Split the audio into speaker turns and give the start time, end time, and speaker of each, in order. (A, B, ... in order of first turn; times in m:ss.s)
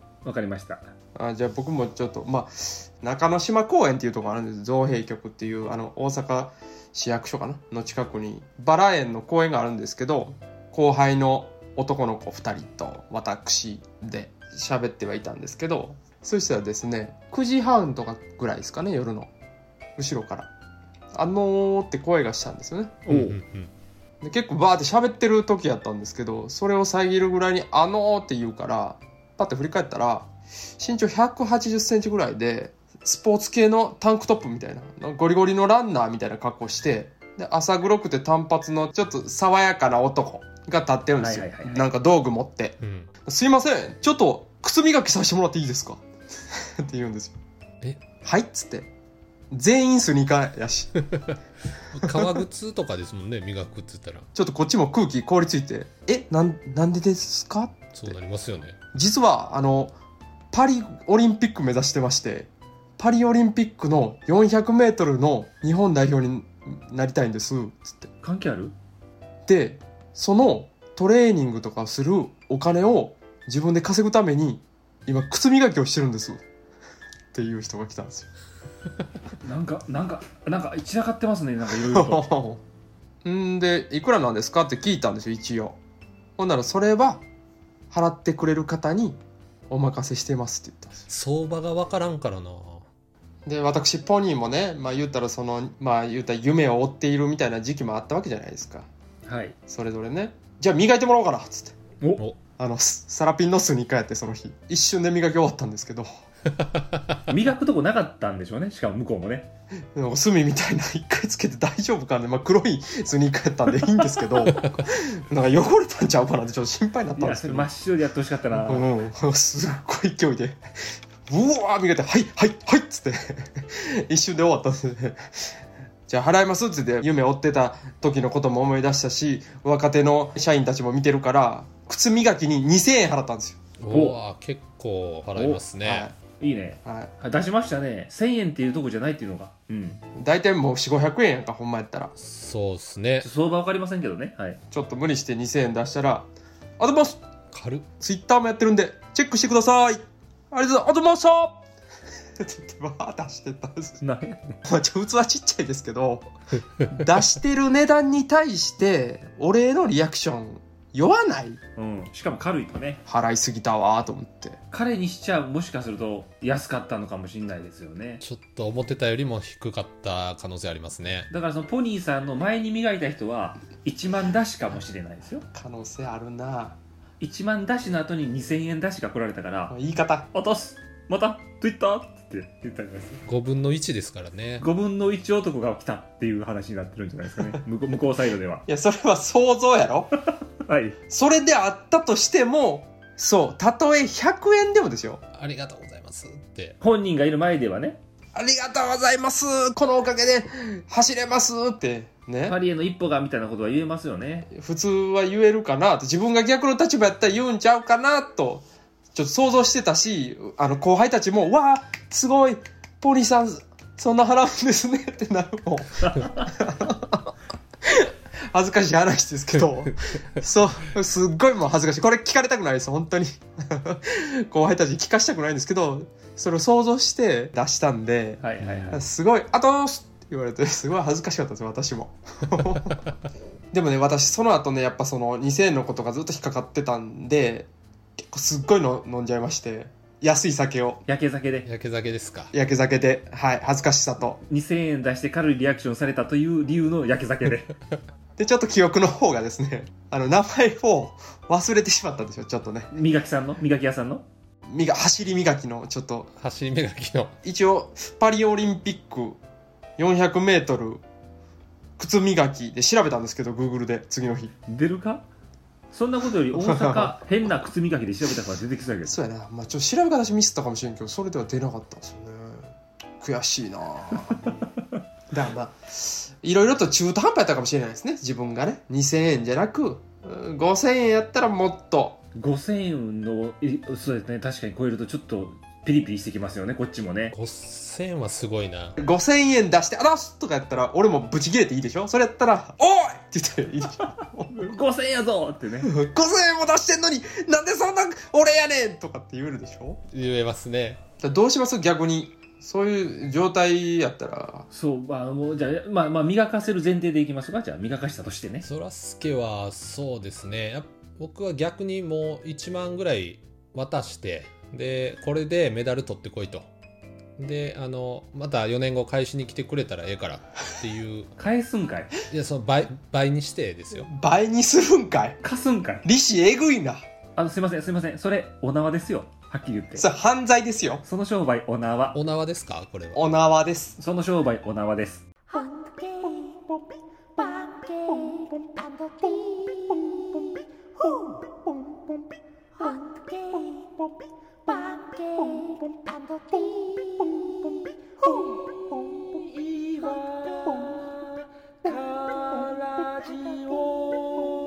0:00.2-0:00.9 A
0:01.1-0:19.3 B
0:20.0-0:20.5 B
0:21.1-0:23.0 B
0:23.0-0:23.4 A
0:23.1-0:23.7 C
0:24.2-0:47.4 B
0:41.2-0:41.8 A
0:42.8-0:43.1 C
0:48.2-0:48.9 B
0:49.5-0:51.0 B
0:51.1-0:54.3 C
0:52.0-0:52.4 B
0:54.3-0:58.2 B
0:57.9-0:58.8 C
0:58.9-0:59.9 B
1:00.5-1:08.1 B
1:08.2-1:08.7 A
1:09.5-1:16.4 B
1:17.3-1:18.3 B
1:19.4-1:22.2 A
1:21.7-1:22.6 B
1:23.2-1:25.8 B
1:26.4-1:27.2 B
1:27.9-1:31.0 B
1:31.1-1:32.8 C
1:33.4-1:38.9 B
1:39.2-1:39.6 A
1:39.7-1:41.7 B
1:42.6-1:46.1 B
1:46.6-1:47.2 C
1:47.3-1:49.5 A
1:49.9-1:57.7 B
1:57.1-1:58.9 A
1:58.5-2:00.6 B
2:01.3-2:13.6 B
2:13.8-2:16.1 C
2:13.9-2:14.2 A
2:15.4-2:15.6 A
2:15.8-2:16.1 B
2:16.4-2:20.0 A
2:16.8-2:17.1 B
2:20.2-2:22.1 B
2:22.2-2:23.3 C
2:23.2-2:24.6 A
2:24.7-2:27.2 B
2:27.5-2:27.8 C
2:28.0-2:31.6 B
2:32.4-2:34.0 B
2:34.0-2:34.6 A
2:34.6-2:36.3 B
2:36.8-2:41.6 B
2:41.8-2:43.0 A
2:43.0-2:44.6 B
2:44.7-2:48.2 A
2:48.2-2:51.3 C
2:51.3-2:55.4 A
2:55.5-2:56.8 B
2:57.2-2:59.8 A
2:59.7-3:00.3 B
3:00.3-3:03.2 A
3:03.3-3:04.6 C
3:04.6-3:08.6 A
3:08.6-3:10.1 B
3:10.6-3:11.0 A
3:11.1-3:15.2 B
3:15.3-3:16.8 C
3:16.8-3:18.0 A
3:18.3-3:22.6 B
3:22.4-3:24.5 A
3:24.5-3:37.3 B
3:37.8-3:53.0 B
3:48.4-3:49.0 A
3:48.6-3:49.0 C
3:53.7-3:57.7 B
3:58.3-4:01.0 B
4:01.0-4:01.7 A
4:01.6-4:02.5 C
4:02.5-4:04.4 B
4:04.4-4:07.7 A
4:08.4-4:12.9 B
4:12.9-4:14.2 A
4:14.6-4:16.3 B
4:16.4-4:17.3 C
4:17.4-4:19.4 B
4:20.0-4:21.0 B
4:22.0-4:24.5 B
4:24.7-4:25.2 A
4:25.9-4:29.2 A
4:26.5-4:27.2 B
4:29.0-4:34.5 B
4:35.3-4:42.2 B
4:42.3-4:47.3 A
4:47.3-4:49.0 C
4:49.0-4:54.6 B
4:54.5-4:55.9 A
4:55.8-5:00.0 B
5:00.1-5:01.0 C
5:01.2-5:04.7 B
5:04.7-5:08.7 A
5:08.6-5:16.7 C
5:17.4-5:21.3 C
5:21.4-5:22.1 A
5:22.3-5:24.1 C
5:24.0-5:25.4 B
5:25.4-5:26.0 A
5:26.0-5:27.0 B
5:27.4-5:30.1 A
5:30.0-5:31.0 B
5:31.0-5:32.2 A
5:32.1-5:33.2 C
5:33.1-5:34.0 B
5:34.0-5:35.2 A